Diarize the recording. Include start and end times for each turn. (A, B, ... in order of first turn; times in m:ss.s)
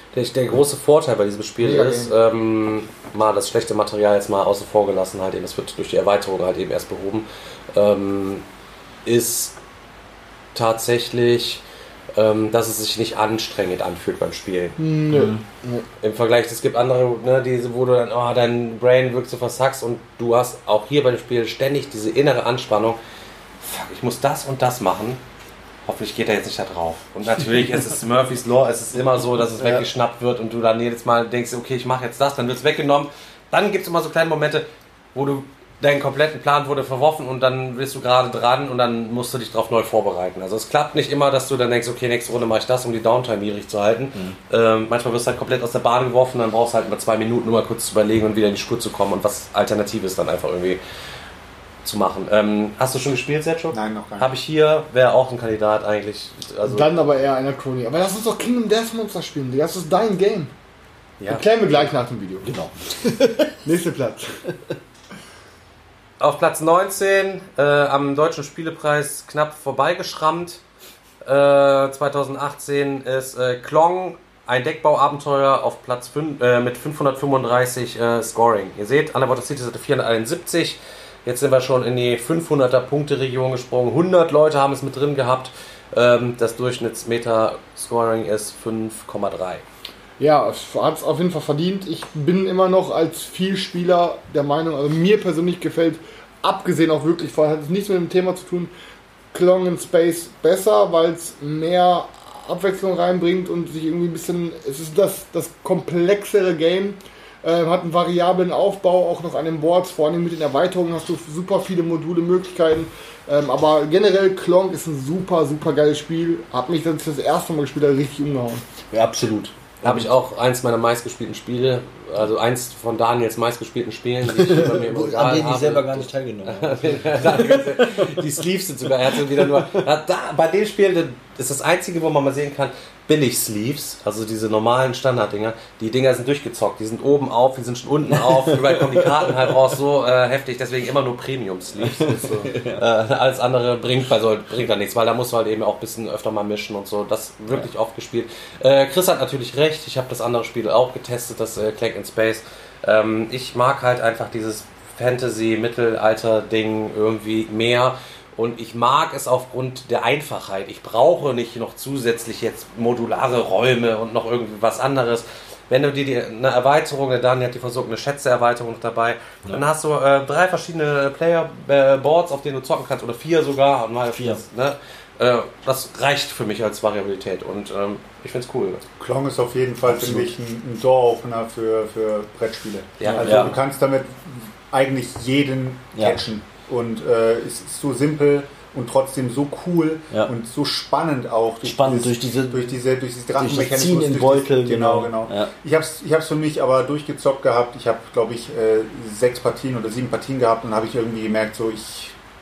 0:00.1-0:08.4 A
0:01.6-0:02.1 B
0:09.0-0:09.6 A
0:10.6-0:11.6 A
0:12.2-0:14.8 A
0:14.8-0:15.8 B
0:15.1-0:15.4 C
0:16.0-0:23.0 A
0:23.6-0:25.2 A
0:25.8-0:50.8 A
0:51.8-0:56.9 A
0:53.7-0:54.3 D
0:56.7-1:00.5 B
1:01.3-1:02.5 B
1:02.4-1:03.6 C
1:03.6-1:04.4 B
1:06.2-1:10.6 A
1:11.2-1:29.6 A
1:30.2-1:38.7 B
1:39.3-1:58.6 B
1:58.9-2:00.1 C
1:59.8-2:58.8 A
2:04.4-2:08.2 C
2:09.4-2:09.8 C
2:18.1-2:19.6 C
2:21.8-2:22.8 C
2:54.1-2:54.4 C
2:59.0-3:22.2 D
2:59.9-3:00.3 C
3:03.0-3:03.4 A
3:03.1-3:03.6 C
3:11.6-3:12.8 C
3:13.4-3:15.5 C